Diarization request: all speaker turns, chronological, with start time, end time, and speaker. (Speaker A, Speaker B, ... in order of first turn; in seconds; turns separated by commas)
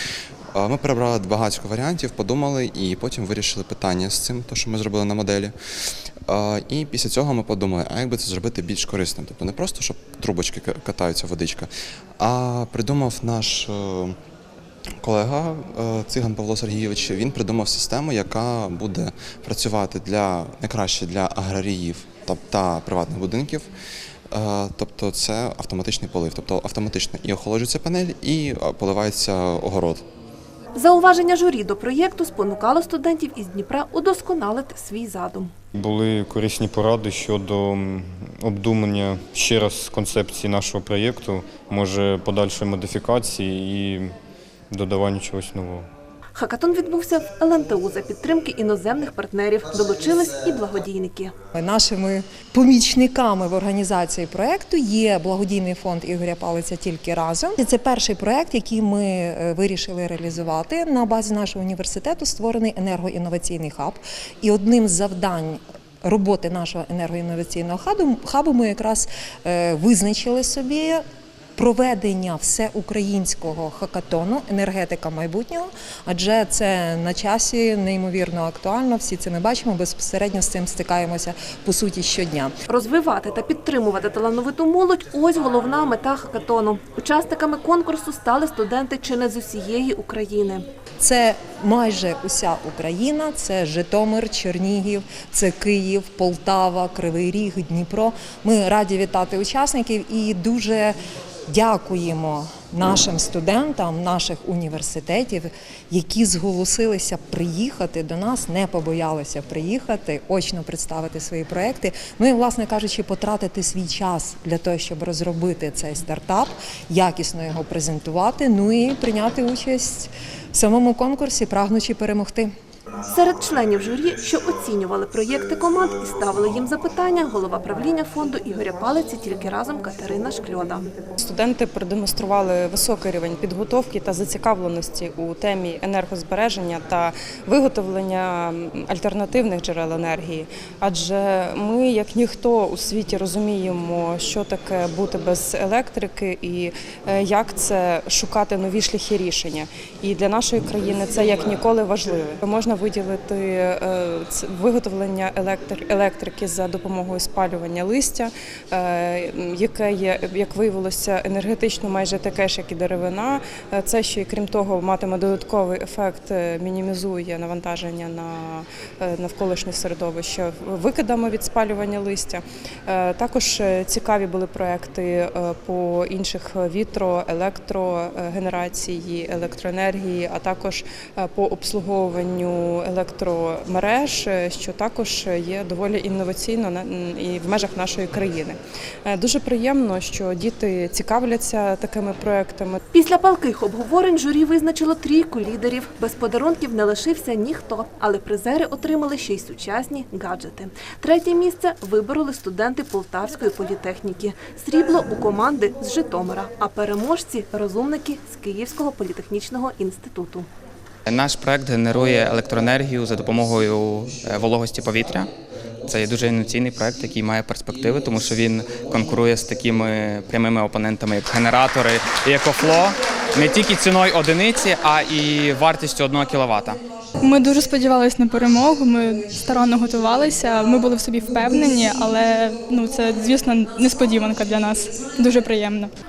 Speaker A: 0.6-5.5, Speaker A: 6.3-14.2, Speaker A: 15.0-23.7, Speaker A: 24.3-30.0, Speaker B: 30.7-35.5, Speaker C: 35.8-44.1, Speaker C: 44.7-45.9, Speaker B: 46.4-51.3, Speaker D: 51.5-71.0, Speaker D: 71.6-82.5, Speaker B: 82.7-90.6, Speaker D: 91.0-100.9, Speaker D: 101.5-122.5, Speaker B: 123.1-130.9, Speaker E: 131.2-192.8, Speaker B: 192.9-210.5, Speaker F: 211.1-215.3, Speaker F: 215.8-226.8, Speaker G: 227.2-235.9